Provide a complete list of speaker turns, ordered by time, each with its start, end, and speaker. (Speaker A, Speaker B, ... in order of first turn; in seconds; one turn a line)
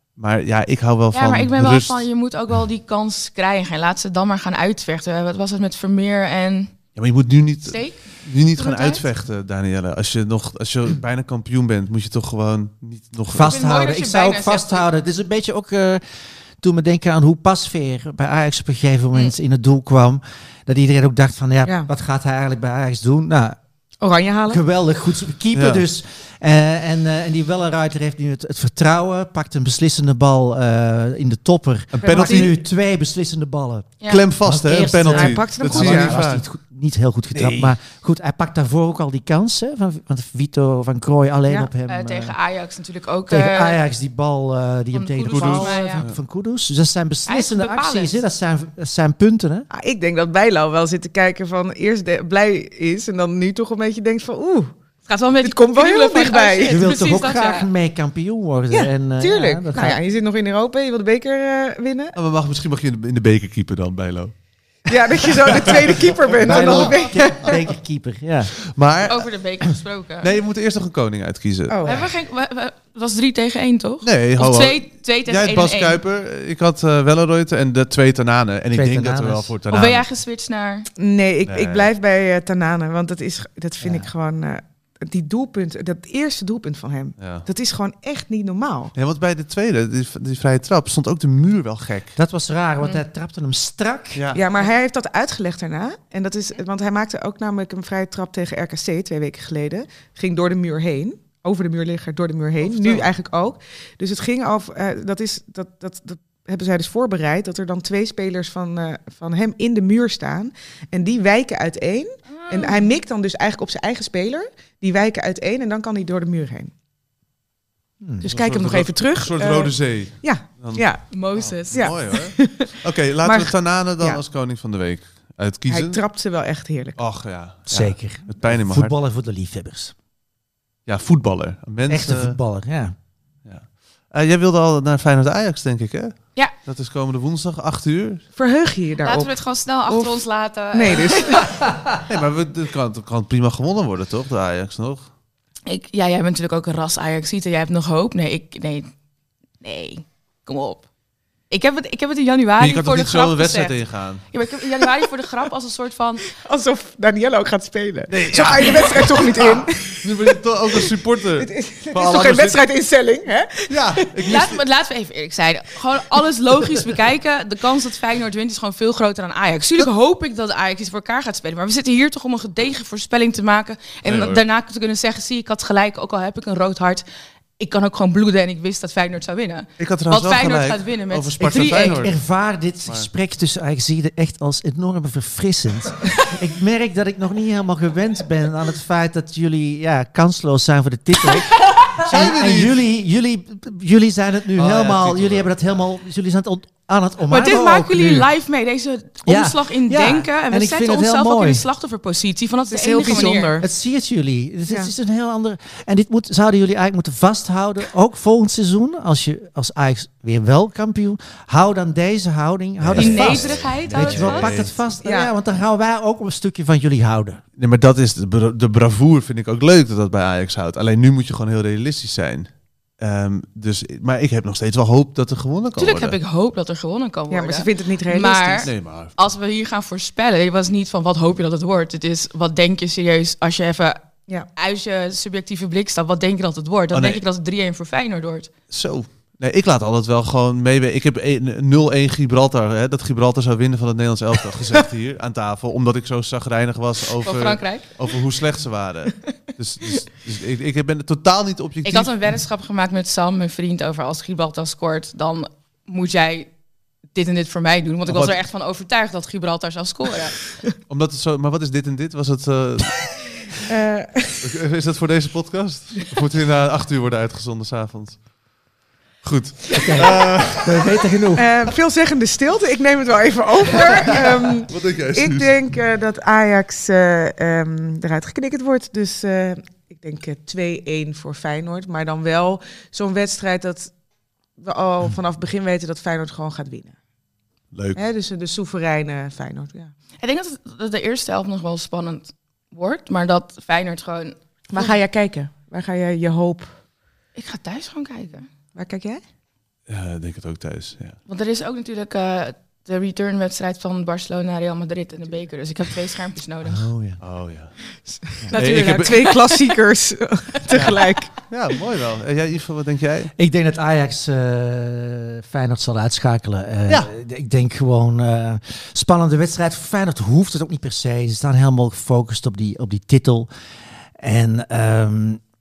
Speaker A: 0.2-2.0
Speaker B: 1.1-6.7
Speaker A: 7.0-13.6
Speaker B: 7.7-9.1
Speaker C: 13.3-16.0
Speaker B: 13.4-14.9
Speaker C: 16.6-23.6
Speaker D: 24.0-24.6
Speaker C: 24.5-42.4
Speaker A: 25.5-25.8
Speaker A: 31.9-32.5
Speaker D: 32.0-32.5
Speaker A: 34.1-36.4
Speaker D: 35.1-36.2
Speaker A: 37.3-37.7
Speaker B: 41.9-43.8
Speaker C: 43.3-49.7
Speaker B: 44.9-46.0
Speaker A: 45.3-46.2
Speaker B: 47.3-48.2
Speaker D: 49.7-54.7
Speaker B: 55.0-57.7
Speaker D: 55.4-56.8
Speaker C: 56.7-60.0
Speaker D: 58.7-62.1
Speaker A: 62.1-64.3
Speaker D: 64.9-67.6
Speaker A: 65.3-67.6
Speaker C: 66.4-68.6
Speaker A: 68.7-69.3
Speaker B: 69.1-70.3
Speaker A: 70.2-71.8
Speaker D: 71.7-72.1
Speaker B: 71.8-76.0
Speaker A: 74.0-80.0
Speaker C: 78.7-79.5
Speaker B: 79.7-80.9
Speaker D: 81.0-88.9
Speaker A: 81.5-81.9
Speaker C: 83.8-84.1
Speaker A: 87.2-87.5
Speaker A: 89.0-92.2
Speaker C: 92.2-94.3
Speaker A: 94.1-94.4
Speaker D: 94.3-116.7
Speaker A: 102.6-103.1
Speaker B: 112.3-112.8
Speaker C: 118.0-118.3
Speaker D: 118.2-121.0
Speaker A: 118.2-120.8
Speaker B: 121.1-121.9
Speaker A: 121.3-126.0
Speaker D: 121.7-122.7
Speaker D: 123.2-124.2
Speaker D: 125.7-127.0
Speaker A: 127.0-128.9
Speaker C: 127.7-129.9
Speaker A: 130.9-132.4
Speaker C: 131.9-132.9
Speaker A: 133.4-138.2
Speaker D: 138.3-139.3
Speaker B: 139.0-141.4
Speaker D: 139.9-141.6
Speaker A: 142.1-145.1
Speaker B: 145.7-148.9
Speaker B: 149.6-150.8
Speaker B: 151.5-156.2
Speaker A: 152.6-154.2
Speaker D: 156.3-164.3
Speaker A: 158.1-162.6
Speaker A: 163.7-164.6
Speaker B: 164.3-177.0
Speaker A: 174.0-174.4
Speaker B: 177.6-182.0
Speaker A: 179.8-182.2
Speaker C: 181.8-198.3
Speaker A: 192.0-192.8
Speaker A: 194.5-195.5
Speaker B: 197.3-203.5
Speaker C: 199.2-201.6
Speaker D: 202.7-203.7
Speaker C: 203.1-217.4
Speaker A: 212.8-214.8
Speaker B: 212.9-214.5
Speaker D: 215.0-215.3
Speaker A: 217.6-226.2
Speaker B: 225.8-234.0
Speaker D: 227.3-228.7
Speaker A: 228.6-229.2
Speaker B: 234.5-238.5
Speaker A: 236.9-237.2
Speaker A: 238.7-252.2
Speaker B: 247.2-247.8
Speaker B: 251.8-256.5
Speaker B: 257.1-260.3
Speaker A: 258.1-258.4
Speaker A: 260.9-263.1
Speaker D: 263.6-264.4
Speaker A: 264.4-268.2
Speaker A: 269.2-271.0
Speaker C: 269.7-271.5
Speaker D: 271.3-283.9
Speaker A: 273.9-275.5
Speaker D: 284.6-286.9
Speaker A: 287.7-288.0
Speaker D: 287.9-289.9
Speaker B: 290.2-294.9
Speaker D: 294.7-296.7
Speaker B: 297.4-298.5
Speaker D: 298.7-299.2
Speaker A: 299.9-301.2
Speaker B: 301.3-306.9
Speaker C: 306.6-307.2
Speaker A: 307.2-307.7
Speaker D: 308.1-311.3
Speaker B: 308.5-309.6
Speaker A: 308.6-309.3
Speaker A: 310.7-313.3
Speaker C: 313.4-323.5
Speaker C: 324.2-325.4